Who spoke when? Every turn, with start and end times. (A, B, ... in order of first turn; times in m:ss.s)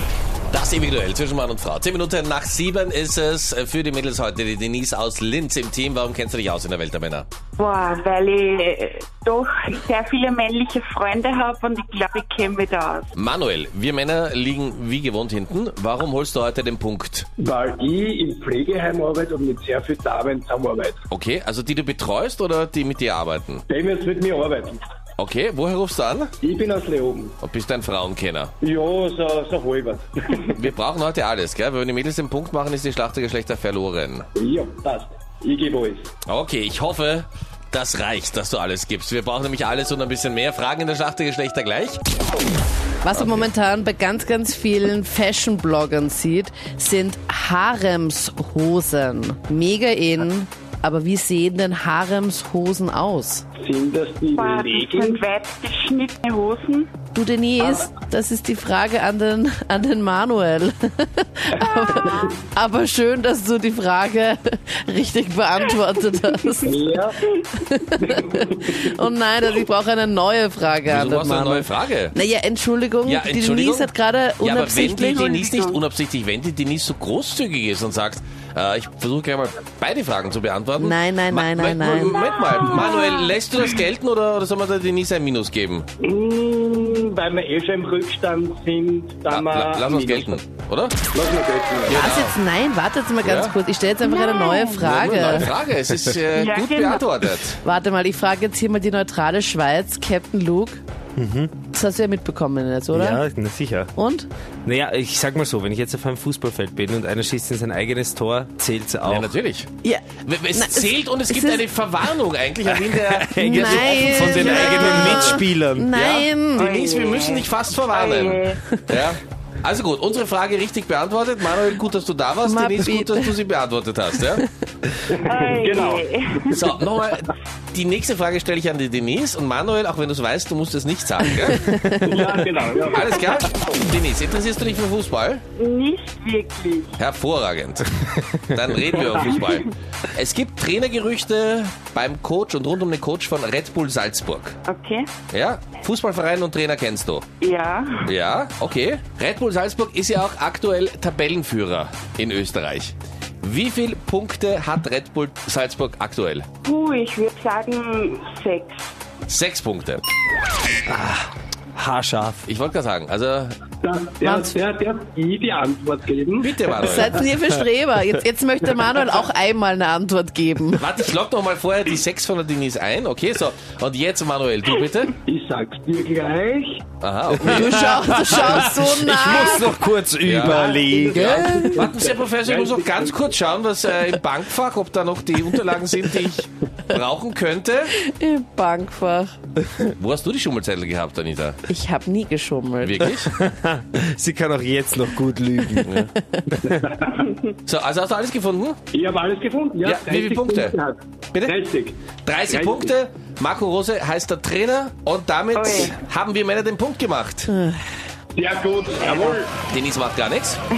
0:00.5-0:07.3 A
0:07.6-0:13.1 B
0:13.2-0:17.3 A
0:17.4-0:21.0 C
0:21.1-0:23.6 A
0:23.7-0:24.8 C
0:25.2-0:26.3 A
0:26.4-0:27.4 C
0:27.4-0:28.5 A
0:28.6-0:30.6 C
0:30.5-0:34.3 A
0:34.4-0:36.1 C
0:36.3-0:42.0 A
0:43.0-0:53.4 D
0:43.1-0:43.5 A
0:53.6-0:55.2 C
0:54.4-0:56.9 B
0:57.1-1:07.0 D
1:01.9-1:02.1 C
1:01.9-1:02.4 B
1:06.6-1:07.2 C
1:07.6-1:15.6 D
1:08.0-1:08.9 C
1:10.9-1:12.2 A
1:13.0-1:25.8 A
1:15.5-1:15.8 B
1:20.8-1:22.2 D
1:22.4-1:23.3 B
1:26.0-1:30.4 C
1:29.3-1:31.0 A
1:31.1-1:32.1 C
1:31.9-1:32.4 A
1:31.9-1:35.5 D
1:33.2-1:33.6 A
1:34.0-1:34.8 B
1:34.8-1:37.6 A
1:36.3-1:37.4 B
1:37.6-1:40.8 D
1:41.2-1:41.5 E
1:41.7-1:43.2 D
1:42.9-1:43.9 E
1:44.0-1:44.3 D
1:44.7-1:49.3 E
1:49.1-1:49.7 A
1:49.8-1:51.8 D
1:50.2-1:55.4 A
1:52.8-1:55.9 E
1:53.4-1:56.7 D
1:55.9-2:04.4 A
1:56.6-1:58.6 B
1:58.7-1:59.0 D
2:02.4-2:03.4 D
2:05.1-2:06.7 C
2:05.2-2:06.6 B
2:06.5-2:11.7 A
2:11.5-2:12.1 D
2:12.0-2:13.4 C
2:12.9-2:15.4 A
2:15.6-2:17.0 B
2:17.0-2:17.9 A
2:18.5-2:24.6 A
2:18.9-2:19.3 C
2:24.7-2:25.1 B
2:25.3-2:27.3 A
2:27.4-2:28.1 B
2:28.1-2:36.5 A
2:36.6-2:38.9 B
2:39.3-2:40.0 A
2:40.9-2:42.5 E
2:42.5-2:43.6 A
2:43.8-2:47.2 C
2:44.2-2:44.5 D
2:46.4-2:47.1 A
2:46.7-2:50.9 D
2:50.8-2:55.1 A
2:55.3-2:56.8 C
2:57.0-2:58.7 A
2:57.4-3:01.8 E
2:57.4-2:59.7 D
3:00.2-3:07.9 A
3:00.4-3:03.4 C
3:08.0-3:09.4 D
3:10.0-3:11.6 A
3:11.7-3:13.1 D
3:12.8-3:13.3 A
3:13.3-3:15.9 E
3:15.7-3:16.5 D
3:16.5-3:16.8 E
3:16.7-3:17.3 C
3:17.7-3:18.8 A
3:18.9-3:23.0 C
3:19.8-3:20.8 A
3:22.2-3:27.5 A
3:25.6-3:25.9 B
3:27.5-3:27.8 D
3:28.4-3:29.6 C
3:29.6-3:30.6 A